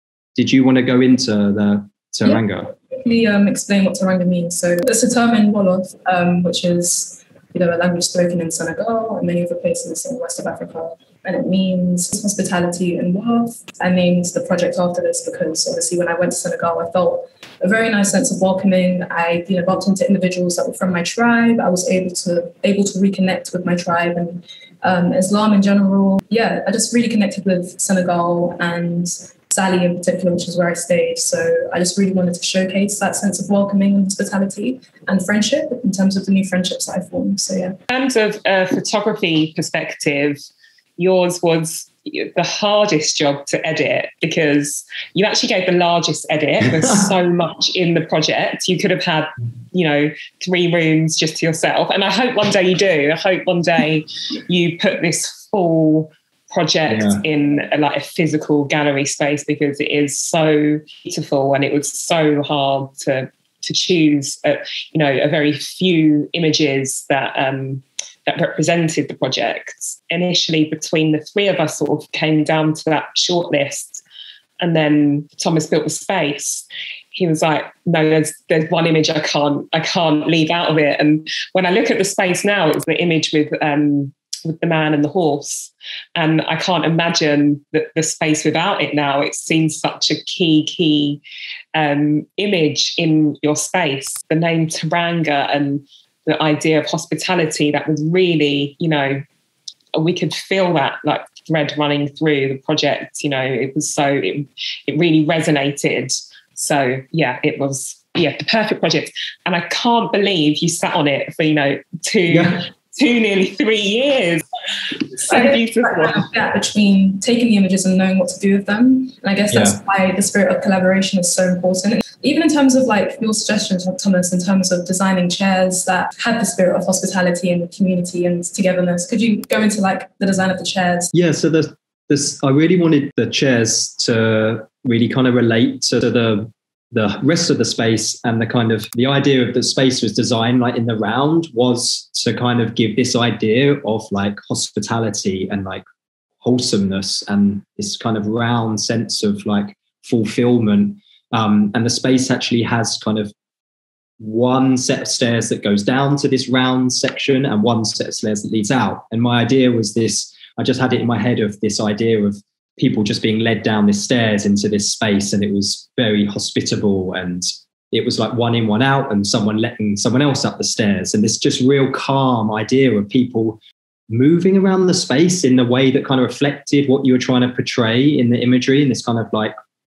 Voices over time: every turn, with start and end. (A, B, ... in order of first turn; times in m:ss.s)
0:00.4-0:02.7 A
0:02.9-0:37.8 B
0:37.9-0:40.4 C
0:41.0-1:14.0 C
0:56.9-0:57.2 A
1:14.6-1:31.2 C
1:31.7-1:39.2 C
1:39.9-1:54.4 C
1:52.3-1:52.6 A
1:55.1-1:56.2 C
1:55.3-2:11.1 B
1:59.5-1:59.8 A
2:11.1-2:25.8 A
2:26.4-2:33.3 A
2:34.2-2:59.5 A